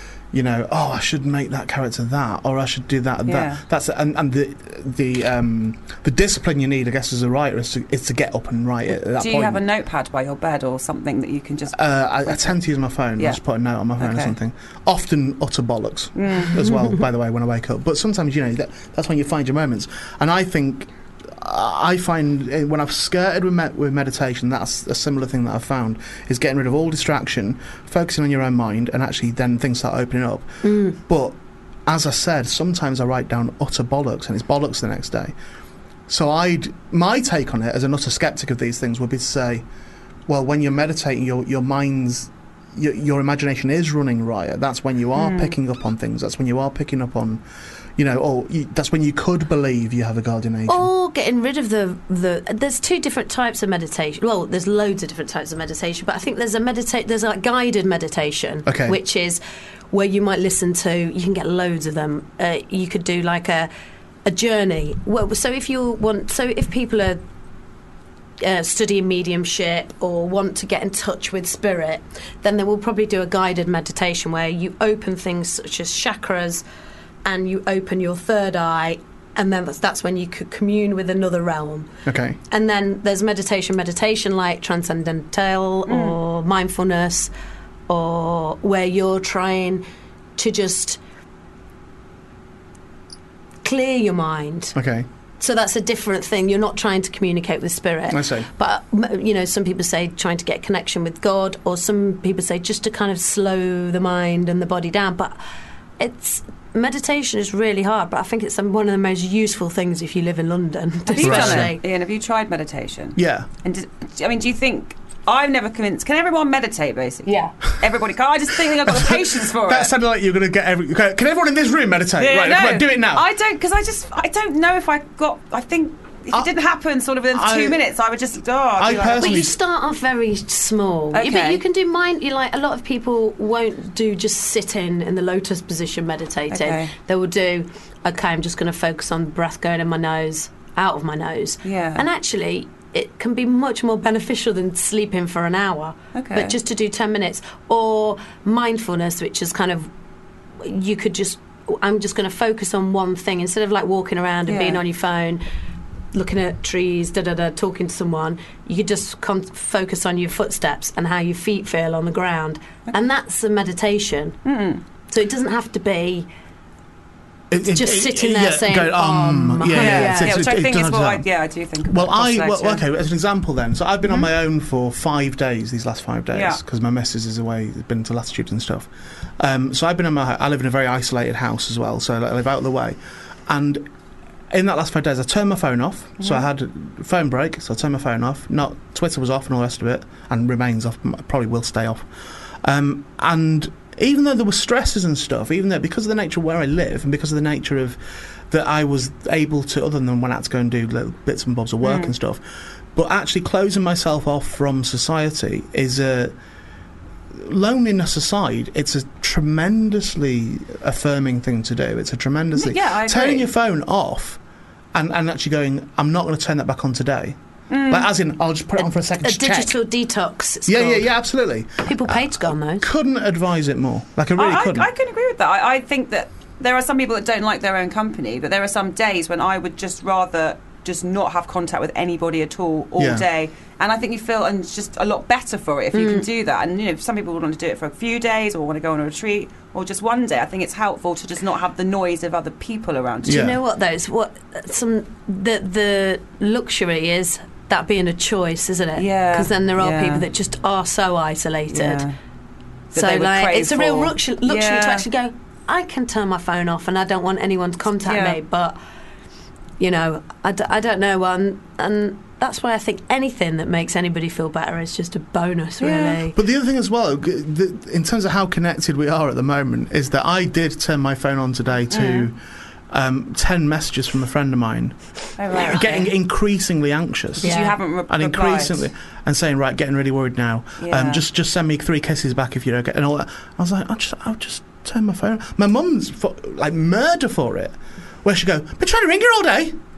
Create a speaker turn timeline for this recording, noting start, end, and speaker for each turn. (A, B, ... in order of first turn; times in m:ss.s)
0:00.3-0:09.6 A
0:03.2-0:03.6 B
0:09.1-0:12.6 B
0:11.7-0:35.3 A
0:14.0-0:14.3 B
0:16.2-0:16.6 B
0:30.6-0:31.0 C
0:36.1-0:39.6 A
0:40.3-0:47.4 A
0:45.2-0:45.5 B
0:48.0-0:50.9 A
0:50.7-1:03.7 C
0:58.6-0:59.0 A
1:04.2-1:07.2 C
1:08.4-1:16.6 C
1:17.2-1:21.9 C
1:22.0-1:22.4 A
1:22.5-1:27.3 C
1:25.9-1:26.2 B
1:27.9-1:29.8 C
1:30.4-1:31.0 C
1:33.6-1:34.8 C
1:34.7-1:35.1 A
1:35.4-1:45.4 C
1:38.1-1:38.5 A
1:46.0-1:51.8 C
1:51.1-1:59.9 B
1:51.2-1:51.7 A
1:53.2-1:53.5 A
1:57.2-1:57.5 C
1:58.6-2:03.2 A
2:02.2-2:09.5 B
2:07.3-2:07.8 A
2:08.8-2:09.6 A
2:09.0-2:29.9 C
2:11.1-2:11.6 B
2:16.5-2:16.9 B
2:21.6-2:22.0 B
2:26.1-2:26.6 B
2:30.6-2:35.4 C
2:34.4-2:34.8 B
2:36.1-2:44.4 C
2:44.4-2:44.8 B
2:45.1-2:46.3 C
2:47.5-2:51.2 A
2:47.6-2:50.4 C
2:49.8-2:52.8 B
2:51.8-3:03.9 A
2:56.3-2:56.6 B
3:04.5-3:12.1 A
3:06.2-3:06.4 B
3:12.6-3:22.4 A
3:21.8-3:22.1 B
3:22.9-3:26.3 A
3:27.3-3:34.4 A
3:32.5-3:33.5 B
3:34.9-3:37.4 A
3:37.7-3:38.1 B
3:37.9-3:39.8 A
3:39.2-3:41.0 C
3:40.7-3:44.9 A
3:41.8-3:42.8 C
3:44.4-4:03.5 B
3:53.0-3:53.2 A
3:55.9-3:56.2 C
4:03.2-4:03.6 A
4:03.3-4:12.1 C
4:08.9-4:10.2 B
4:11.7-4:12.1 B
4:12.9-4:18.8 C
4:12.9-4:15.0 B
4:18.0-4:18.4 B
4:19.8-4:26.4 C
4:25.8-4:26.2 B
4:26.3-4:32.4 A
4:31.9-4:32.3 B
4:32.9-4:35.0 A
4:35.4-4:36.1 B
4:35.5-4:37.6 A
4:37.4-4:38.9 B
4:37.4-4:37.8 C
4:38.1-4:49.8 A
4:40.8-4:41.2 B